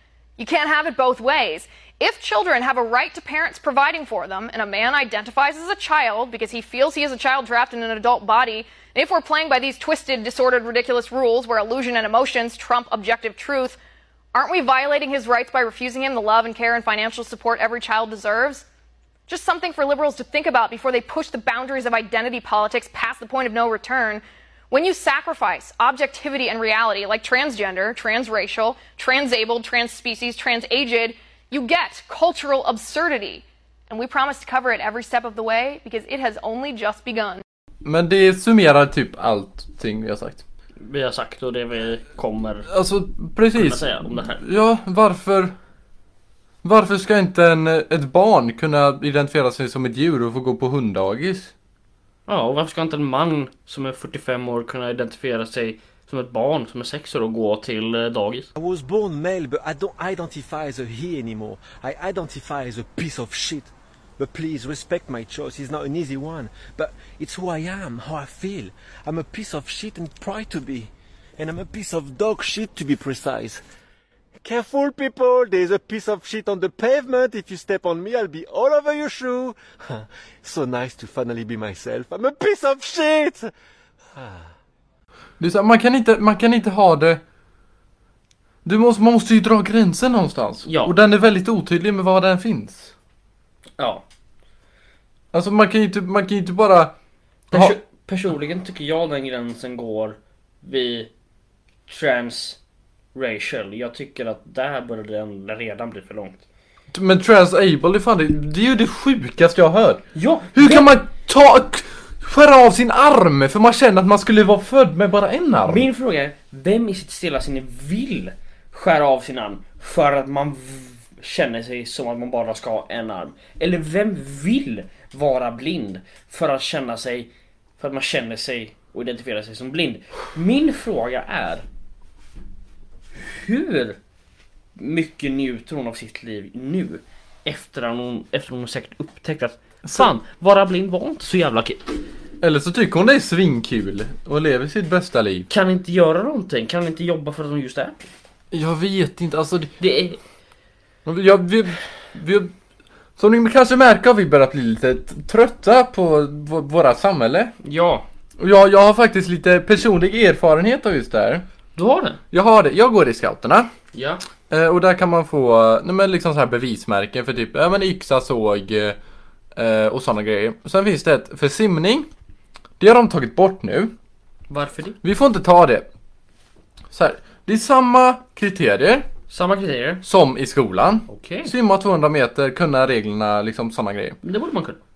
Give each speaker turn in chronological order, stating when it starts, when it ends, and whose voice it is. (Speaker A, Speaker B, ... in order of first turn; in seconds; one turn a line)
Speaker A: 0.4-13.8
Speaker A: 14.3-18.6
Speaker A: 19.3-37.4
Speaker B: 37.8-40.4
Speaker C: 40.8-42.7
Speaker B: 42.7-45.5
Speaker C: 43.5-44.4
Speaker B: 46.6-51.5
Speaker C: 52.3-58.5
Speaker D: 58.6-73.6
Speaker D: 74.4-83.5
Speaker D: 84.1-84.5
Speaker B: 85.4-87.2
Speaker B: 88.6-92.9
Speaker C: 90.6-90.9
Speaker C: 93.8-94.0
Speaker B: 95.3-96.9
Speaker C: 97.5-101.1
Speaker B: 97.5-97.8
Speaker C: 101.9-102.6
Speaker C: 103.1-106.4
Speaker B: 106.9-115.8
Speaker C: 110.1-110.9
Speaker C: 115.7-131.6
Speaker C: 133.2-134.0
Speaker C: 134.8-142.0
Speaker B: 139.8-140.1
Speaker B: 142.4-145.5
Speaker C: 145.5-148.1
Speaker B: 148.5-149.7
Speaker C: 149.8-150.2
Speaker B: 151.0-152.5
Speaker B: 153.2-157.5
Speaker C: 157.6-158.1
Speaker B: 158.4-161.4
Speaker C: 161.7-162.2
Speaker B: 162.3-163.7
Speaker C: 163.9-164.2
Speaker B: 164.5-169.0
Speaker B: 169.5-172.1
Speaker B: 172.8-173.9
Speaker C: 174.5-175.0
Speaker B: 175.0-175.9
Speaker B: 176.9-179.1
Speaker C: 179.3-180.0
Speaker B: 180.0-184.2
Speaker C: 181.1-181.5
Speaker C: 184.2-184.8